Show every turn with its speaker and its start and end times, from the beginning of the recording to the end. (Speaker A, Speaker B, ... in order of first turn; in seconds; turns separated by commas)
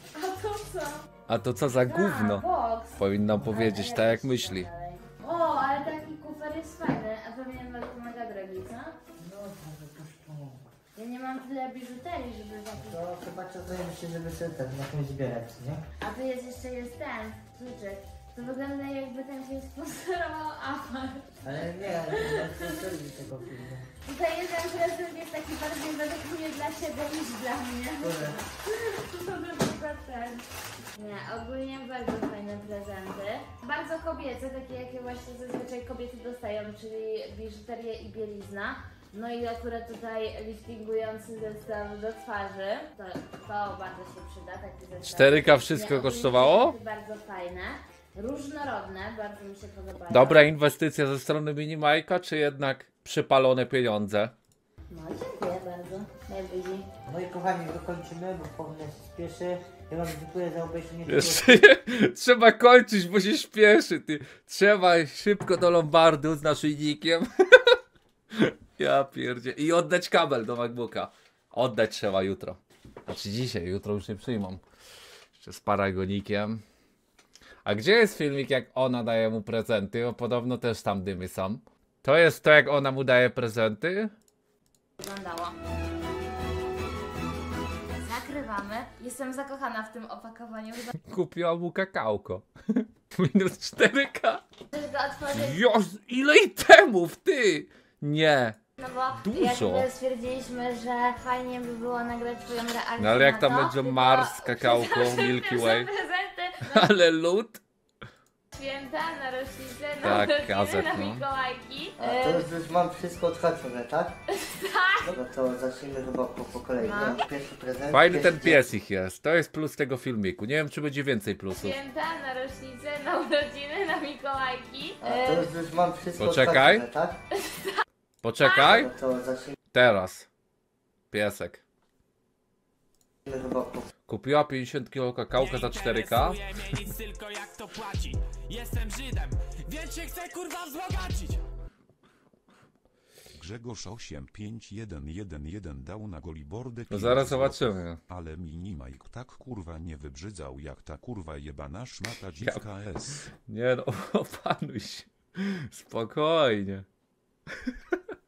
Speaker A: 0.1-1.1, Speaker B: 1.3-2.5, Speaker A: 1.8-8.9, Speaker B: 3.0-4.7, Speaker C: 9.2-10.7, Speaker A: 10.9-13.0, Speaker C: 12.8-15.8, Speaker A: 16.0-21.4, Speaker C: 21.4-23.9, Speaker A: 21.9-22.8, Speaker A: 24.0-50.5, Speaker C: 28.0-28.4, Speaker B: 45.0-46.8, Speaker B: 50.1-54.3, Speaker A: 54.9-56.9, Speaker C: 57.1-61.6, Speaker B: 61.1-67.8, Speaker B: 68.3-74.6, Speaker B: 75.4-76.6, Speaker B: 77.7-84.1, Speaker A: 85.0-85.6, Speaker A: 88.0-91.0, Speaker B: 91.0-94.4, Speaker A: 94.7-95.6, Speaker B: 95.3-98.6, Speaker A: 98.8-106.9, Speaker B: 99.2-99.9, Speaker B: 103.0-105.9, Speaker B: 106.7-107.6, Speaker A: 108.5-112.5, Speaker B: 110.0-111.2, Speaker C: 112.0-114.1, Speaker A: 114.3-115.2, Speaker C: 115.0-118.7, Speaker A: 116.8-117.2, Speaker B: 117.9-121.8, Speaker A: 121.6-125.5, Speaker C: 125.0-127.2, Speaker B: 126.2-126.9, Speaker A: 127.4-127.8, Speaker B: 128.2-128.9, Speaker C: 128.6-129.6, Speaker B: 129.7-130.3, Speaker B: 131.1-131.6, Speaker C: 133.3-133.9, Speaker B: 134.1-136.8, Speaker D: 135.3-141.4, Speaker E: 143.4-153.3, Speaker B: 146.9-148.0, Speaker B: 153.2-156.9, Speaker B: 157.7-158.0